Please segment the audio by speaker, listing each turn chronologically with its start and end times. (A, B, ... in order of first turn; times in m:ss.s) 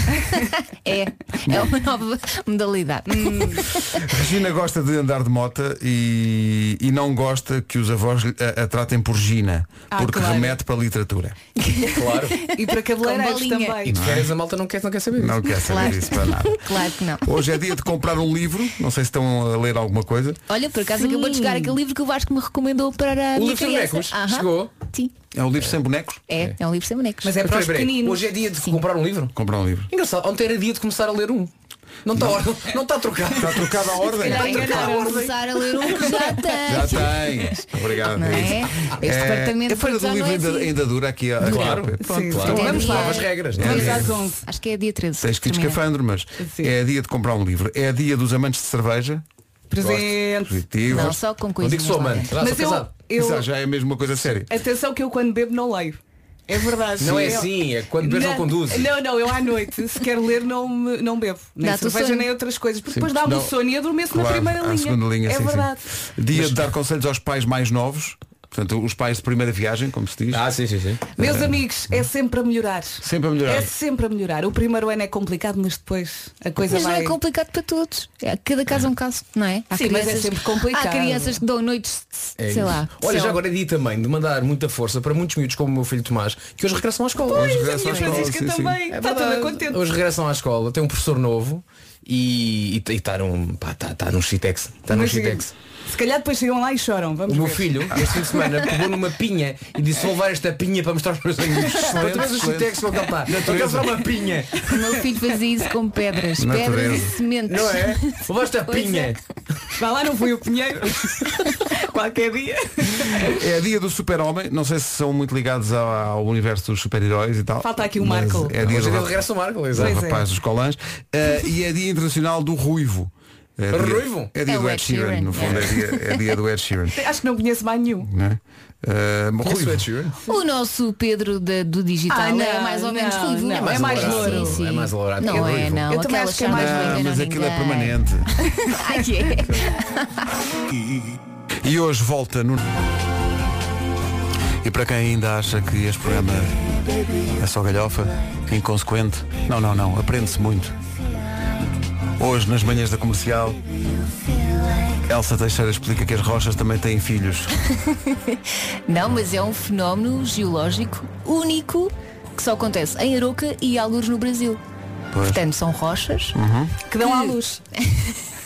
0:00.1-0:04.0 A
0:03.1-0:03.6 B
0:04.1-0:11.4 C
0:09.9-0:10.6 B
0:11.6-0:13.9 A
0:12.0-0:12.4 D
0:12.6-0:14.0 B
0:13.9-0:16.0 D
0:14.0-0:14.3 C
0:15.2-0:16.6 C
0:15.5-0:17.5 A
0:17.2-0:20.4 C
0:20.5-0:25.1 A
0:20.9-0:21.8 B
0:23.4-0:24.7 D
0:25.3-0:26.2 C
0:26.3-0:27.4 A
0:27.2-0:28.3 B
0:27.4-0:29.3 D
0:29.4-0:29.9 C
0:29.9-0:31.5 D
0:32.0-0:36.4 D
0:33.3-0:34.9 C
0:34.1-0:37.6 A
0:34.2-0:35.2 B
0:36.7-0:42.8 C
0:38.0-0:39.0 D
0:38.2-0:40.8 A
0:41.4-0:44.0 D
0:41.5-0:41.8 A
0:42.0-0:44.4 B
0:42.4-0:45.8 A
0:43.6-0:44.1 C
0:45.2-0:49.2 C
0:46.4-0:46.7 B
0:49.7-0:50.6 B
0:49.8-0:50.1 D
0:50.4-0:51.2 C
0:50.9-0:52.3 A
0:51.6-0:52.9 D
0:52.4-0:53.5 B
0:53.2-0:54.5 C
0:54.5-1:05.8 B
0:57.0-0:58.9 D
1:01.6-1:02.3 A
1:02.9-1:03.5 C
1:04.1-1:10.4 C
1:06.3-1:06.7 D
1:10.3-1:11.1 D
1:11.2-1:17.2 B
1:11.2-1:11.5 C
1:13.0-1:13.7 C
1:16.6-1:23.4 A
1:19.7-1:21.4 B
1:22.4-1:28.3 D
1:27.3-1:29.8 B
1:27.3-1:28.8 C
1:28.9-1:35.5 D
1:34.9-1:37.9 B
1:37.3-1:45.0 D
1:41.4-1:43.9 C
1:44.7-1:49.2 A
1:46.4-1:47.2 C
1:47.5-1:49.2 D
1:49.8-1:53.3 B
1:53.3-2:07.0 C
1:57.6-1:58.6 B
1:58.6-2:00.0 D
1:59.8-2:00.2 B
2:03.7-2:04.3 D
2:04.4-2:06.2 A
2:07.0-2:08.1 B
2:08.1-2:09.9 C
2:09.4-2:10.1 D
2:10.3-2:20.2 A
2:12.1-2:14.6 B
2:13.6-2:15.9 D
2:15.9-2:17.1 B
2:16.5-2:18.3 C
2:21.6-2:22.7 C
2:24.6-2:26.6 C
2:27.3-2:30.8 C
2:32.2-2:33.6 C
2:35.0-2:37.5 C
2:37.9-2:44.6 A
2:45.1-2:45.4 C
2:45.2-2:46.4 A
2:46.4-2:46.8 C
2:46.9-2:47.6 B
2:47.0-2:47.4 A